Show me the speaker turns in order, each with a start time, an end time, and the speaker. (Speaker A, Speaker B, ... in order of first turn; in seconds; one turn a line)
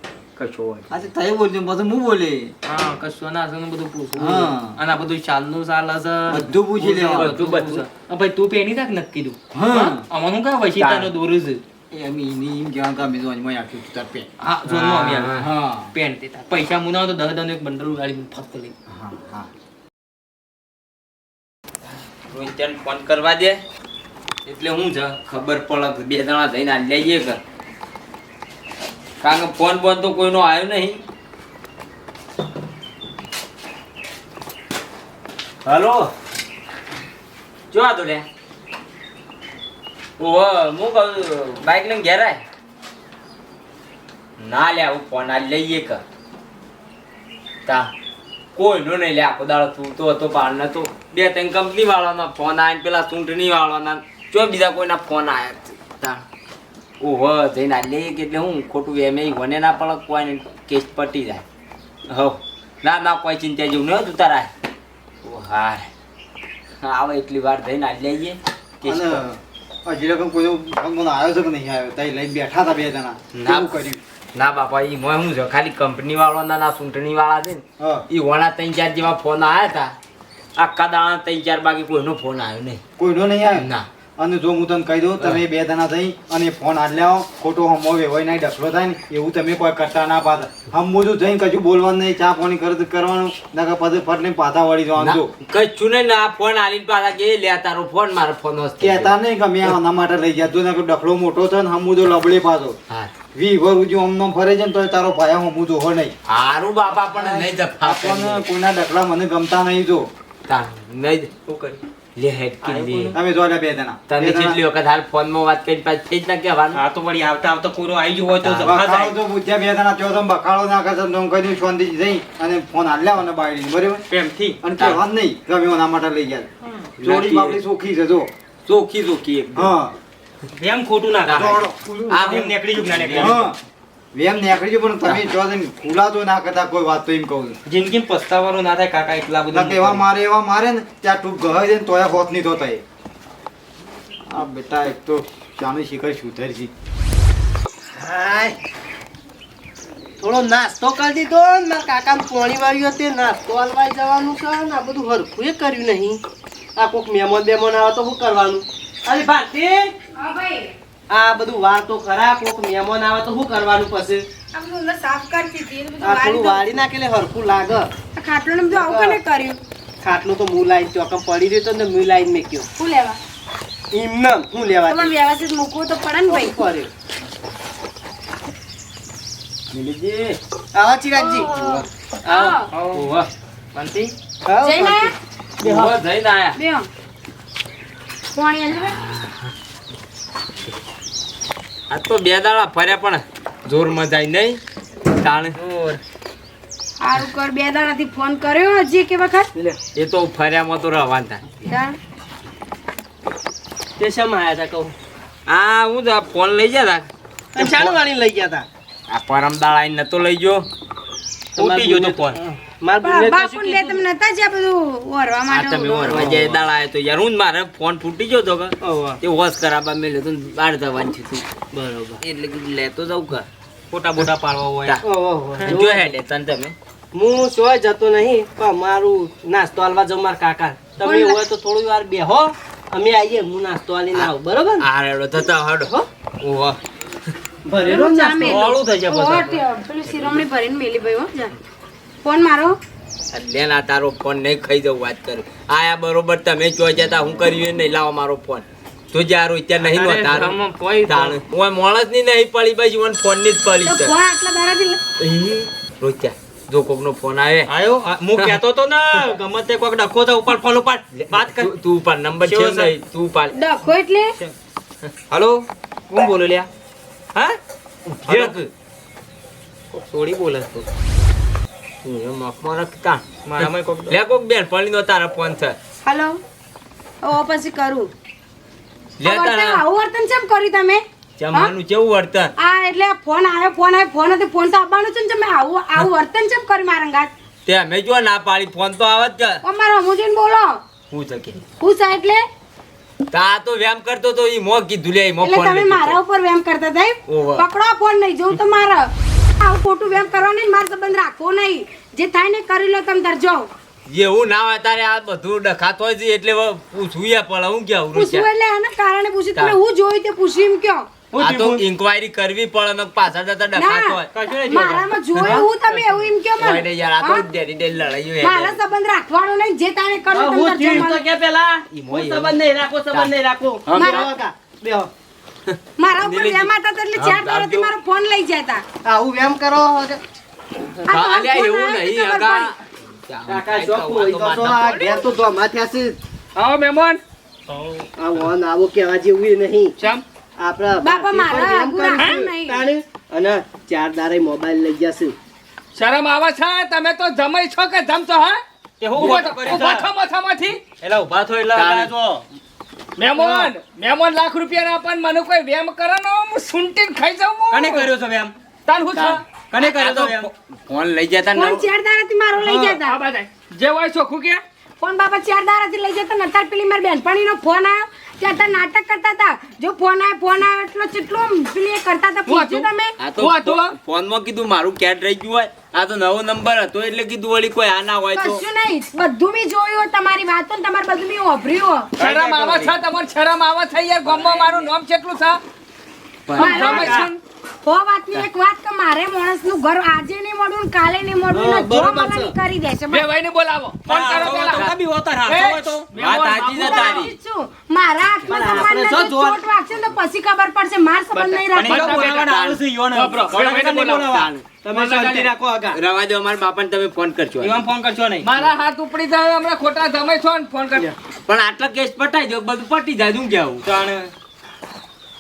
Speaker A: 0.4-1.1
Speaker B: 0.9-2.5
Speaker C: 2.7-11.6
Speaker B: 4.2-4.8
Speaker B: 6.3-7.4
Speaker A: 6.8-7.9
Speaker B: 9.5-10.1
Speaker A: 10.8-11.1
Speaker B: 11.9-14.3
Speaker C: 14.4-15.4
Speaker A: 14.7-15.5
Speaker B: 15.3-15.9
Speaker C: 15.9-18.7
Speaker B: 18.9-19.5
Speaker A: 22.3-23.6
Speaker A: 24.5-27.4
Speaker A: 29.2-31.0
Speaker A: 35.6-36.1
Speaker A: 37.7-38.3
Speaker A: 40.2-42.4
Speaker A: 44.4-46.0
Speaker A: 47.7-47.9
Speaker A: 48.5-56.2
Speaker A: 57.0-61.5
Speaker A: 62.1-64.5
Speaker A: 65.2-65.9
Speaker A: 66.8-69.2
Speaker B: 68.8-74.0
Speaker A: 73.3-73.8
Speaker A: 74.3-80.0
Speaker B: 77.8-78.0
Speaker A: 80.6-82.8
Speaker B: 83.0-95.3
Speaker A: 83.5-83.9
Speaker A: 95.0-99.2
Speaker B: 98.8-102.8
Speaker B: 103.3-106.2
Speaker A: 106.3-108.4
Speaker B: 107.2-110.1
Speaker A: 110.5-111.3
Speaker C: 111.5-111.8
Speaker A: 112.2-113.2
Speaker C: 112.6-113.2
Speaker B: 113.1-114.6
Speaker A: 114.1-116.8
Speaker C: 116.7-119.2
Speaker A: 118.4-118.8
Speaker B: 118.6-124.0
Speaker C: 124.1-124.6
Speaker B: 124.6-128.3
Speaker A: 127.0-127.6
Speaker A: 128.7-129.7
Speaker B: 129.6-129.9
Speaker C: 130.6-133.5
Speaker A: 131.2-133.4
Speaker B: 131.3-132.5
Speaker B: 133.2-133.6
Speaker B: 134.1-137.6
Speaker C: 137.7-140.0
Speaker B: 139.5-142.8
Speaker B: 144.3-146.7
Speaker D: 147.9-148.6
Speaker D: 150.2-156.2
Speaker D: 156.8-159.9
Speaker E: 160.2-160.7
Speaker D: 161.1-164.3
Speaker E: 164.5-166.7
Speaker D: 166.0-167.9
Speaker E: 168.1-169.6
Speaker D: 168.7-169.2
Speaker D: 170.0-172.7
Speaker E: 172.8-173.2
Speaker D: 173.9-175.1
Speaker E: 174.8-176.6
Speaker D: 176.3-176.9
Speaker A: 179.7-180.4
Speaker D: 180.8-182.6
Speaker E: 181.2-182.7
Speaker C: 182.7-183.1
Speaker A: 182.9-183.3
Speaker C: 183.8-184.1
Speaker D: 184.5-185.9
Speaker E: 184.6-185.1
Speaker A: 185.6-186.6
Speaker E: 186.6-186.9
Speaker E: 188.3-189.0
Speaker A: 188.8-189.5
Speaker A: 191.9-194.6
Speaker A: 195.1-195.6
Speaker D: 195.6-196.0
Speaker E: 197.0-199.5
Speaker A: 199.9-201.4
Speaker E: 201.7-202.0
Speaker D: 204.0-204.9
Speaker A: 205.5-207.9
Speaker D: 207.5-208.7
Speaker A: 209.1-210.7
Speaker C: 211.6-212.4
Speaker D: 211.6-214.0
Speaker E: 213.0-216.3
Speaker A: 215.5-221.5
Speaker C: 216.1-216.5
Speaker D: 218.8-219.2
Speaker D: 221.7-222.2
Speaker A: 222.2-223.5
Speaker C: 223.9-225.0
Speaker D: 225.0-226.1
Speaker A: 225.6-226.8
Speaker D: 227.1-234.8
Speaker E: 231.0-231.4
Speaker A: 234.2-235.9
Speaker C: 236.4-236.8
Speaker D: 237.7-238.8
Speaker E: 237.8-241.6
Speaker C: 238.4-239.6
Speaker E: 242.2-242.8
Speaker A: 243.3-254.1
Speaker C: 249.8-251.4
Speaker E: 253.8-255.0
Speaker A: 255.2-257.7
Speaker C: 257.7-261.7
Speaker A: 261.1-263.6
Speaker C: 262.4-262.9
Speaker E: 263.5-264.4
Speaker C: 265.3-266.7
Speaker A: 268.1-268.7
Speaker C: 268.2-268.6
Speaker C: 269.9-270.9
Speaker A: 272.0-275.8
Speaker C: 273.4-274.2
Speaker E: 276.1-276.4
Speaker E: 277.2-278.1
Speaker A: 279.2-279.8
Speaker E: 279.2-281.7
Speaker A: 281.4-282.5
Speaker E: 282.6-287.3
Speaker A: 287.7-289.6
Speaker E: 289.6-290.8
Speaker A: 291.1-291.6
Speaker E: 291.8-292.5
Speaker A: 293.3-296.2
Speaker E: 295.4-303.7
Speaker A: 297.3-297.7
Speaker A: 304.1-308.5
Speaker E: 308.1-311.1
Speaker A: 311.3-315.7
Speaker D: 311.4-311.6
Speaker E: 313.8-317.5
Speaker C: 314.4-315.6
Speaker A: 316.6-318.8
Speaker E: 318.4-321.3
Speaker D: 320.3-325.1
Speaker A: 321.9-322.6
Speaker A: 323.1-324.3
Speaker E: 323.9-324.3
Speaker A: 325.7-327.9
Speaker E: 326.0-328.9
Speaker D: 329.1-330.2
Speaker A: 331.1-335.2
Speaker E: 331.1-332.7
Speaker D: 333.5-336.2
Speaker F: 336.6-337.2
Speaker C: 337.7-338.1
Speaker D: 338.2-339.9
Speaker D: 340.6-345.4
Speaker E: 341.0-342.9
Speaker F: 345.9-348.6
Speaker C: 349.0-350.1
Speaker F: 349.1-350.8
Speaker C: 351.0-352.4
Speaker A: 351.7-352.1
Speaker F: 353.2-358.1
Speaker C: 353.4-353.7
Speaker C: 357.7-358.5
Speaker F: 358.9-359.4
Speaker A: 359.1-361.9
Speaker C: 359.7-360.5
Speaker E: 361.5-363.2
Speaker F: 362.6-364.6
Speaker E: 365.0-373.2
Speaker F: 372.5-374.0
Speaker A: 373.2-378.6
Speaker E: 378.3-382.1
Speaker F: 382.2-385.6
Speaker C: 382.2-382.9
Speaker A: 384.3-384.9
Speaker A: 386.5-387.3
Speaker F: 386.6-387.3
Speaker E: 386.6-393.3
Speaker D: 391.5-392.5
Speaker F: 393.1-394.9
Speaker C: 394.1-396.0
Speaker A: 394.1-397.3
Speaker F: 395.5-397.3
Speaker E: 396.7-402.2
Speaker D: 398.5-399.6
Speaker F: 401.4-402.5
Speaker C: 401.7-404.5
Speaker A: 401.9-402.8
Speaker F: 403.1-405.4
Speaker A: 404.2-404.6
Speaker D: 404.7-406.0
Speaker C: 405.1-405.4
Speaker A: 405.9-407.8
Speaker C: 407.6-408.5
Speaker F: 408.4-411.1
Speaker A: 411.5-413.9
Speaker C: 413.8-414.3